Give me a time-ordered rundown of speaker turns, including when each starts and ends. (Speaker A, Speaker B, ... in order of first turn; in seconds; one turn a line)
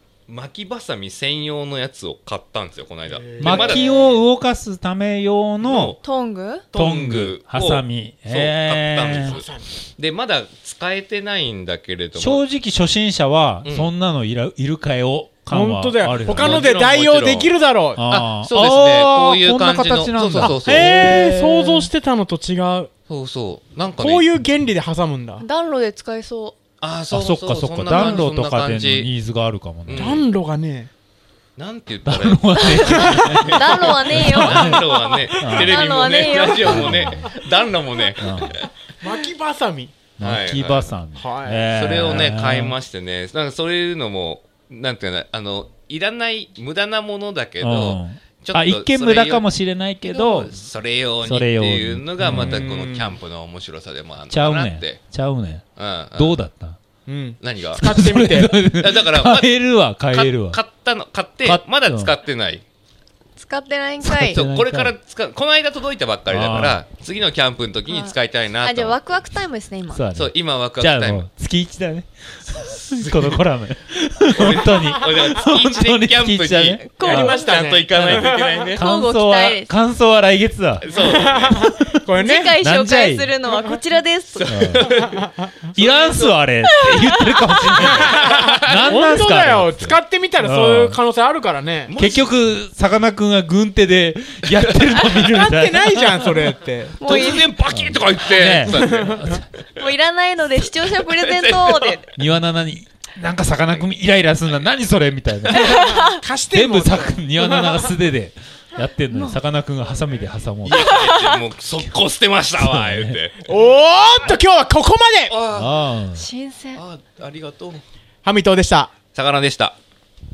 Speaker A: 0.3-3.9
Speaker B: 3.1-3.9
Speaker C: 3.4-6.0
Speaker A: 5.6-6.0
Speaker D: 6.0-6.6
Speaker A: 6.7-12.4
Speaker C: 6.7-9.4
Speaker B: 9.2-9.7
Speaker C: 12.2-16.7
Speaker A: 13.6-13.9
Speaker B: 15.5-18.0
Speaker A: 16.2-17.5
Speaker C: 18.0-21.9
Speaker A: 18.0-20.9
Speaker B: 20.4-22.9
Speaker A: 23.1-24.3
Speaker B: 24.0-25.4
Speaker D: 25.4-26.6
Speaker A: 26.8-29.1
Speaker C: 27.1-30.2
Speaker A: 29.9-30.2
Speaker B: 29.9-30.9
Speaker A: 31.6-38.7
Speaker C: 32.0-34.9
Speaker D: 32.6-37.0
Speaker B: 35.0-35.4
Speaker C: 35.4-35.9
Speaker C: 36.5-37.3
Speaker C: 38.2-38.6
Speaker B: 39.0-40.0
Speaker C: 40.2-42.8
Speaker A: 40.2-41.0
Speaker B: 41.1-41.7
Speaker A: 41.7-49.5
Speaker C: 47.6-50.5
Speaker A: 50.0-55.0
Speaker C: 51.2-52.6
Speaker B: 52.3-53.1
Speaker C: 54.3-56.8
Speaker A: 55.8-56.4
Speaker B: 57.1-58.5
Speaker A: 57.4-62.6
Speaker C: 57.8-60.6
Speaker C: 61.4-62.1
Speaker D: 63.4-64.4
Speaker C: 64.0-64.9
Speaker A: 64.3-69.2
Speaker C: 66.3-66.8
Speaker D: 67.9-70.0
Speaker C: 69.9-77.4
Speaker A: 70.1-71.3
Speaker A: 72.6-73.4
Speaker A: 74.3-78.8
Speaker D: 76.9-77.4
Speaker B: 77.0-78.7
Speaker C: 77.9-80.9
Speaker D: 78.8-79.7
Speaker A: 80.8-81.6
Speaker B: 81.0-82.6
Speaker C: 81.6-81.9
Speaker D: 82.2-84.5
Speaker C: 82.6-83.3
Speaker B: 83.5-83.8
Speaker A: 84.3-85.3
Speaker C: 84.5-84.9
Speaker C: 85.7-91.0
Speaker D: 87.5-87.9
Speaker B: 88.0-91.9
Speaker A: 88.2-88.5
Speaker A: 91.8-92.4
Speaker C: 92.0-96.5
Speaker A: 94.6-94.9
Speaker B: 95.3-97.0
Speaker D: 97.0-97.5
Speaker A: 97.0-99.8
Speaker C: 97.7-99.5
Speaker B: 98.7-99.2
Speaker D: 99.8-102.0
Speaker A: 100.8-102.0
Speaker C: 102.2-105.8
Speaker D: 105.5-106.2
Speaker B: 105.5-107.9
Speaker C: 106.5-111.1
Speaker D: 109.1-109.4
Speaker A: 110.6-113.3
Speaker D: 111.0-111.4
Speaker C: 112.6-113.2
Speaker B: 113.4-115.3
Speaker A: 115.3-115.9
Speaker C: 115.5-116.2
Speaker D: 116.1-116.8
Speaker A: 116.7-117.8
Speaker B: 118.2-118.9
Speaker A: 119.1-119.8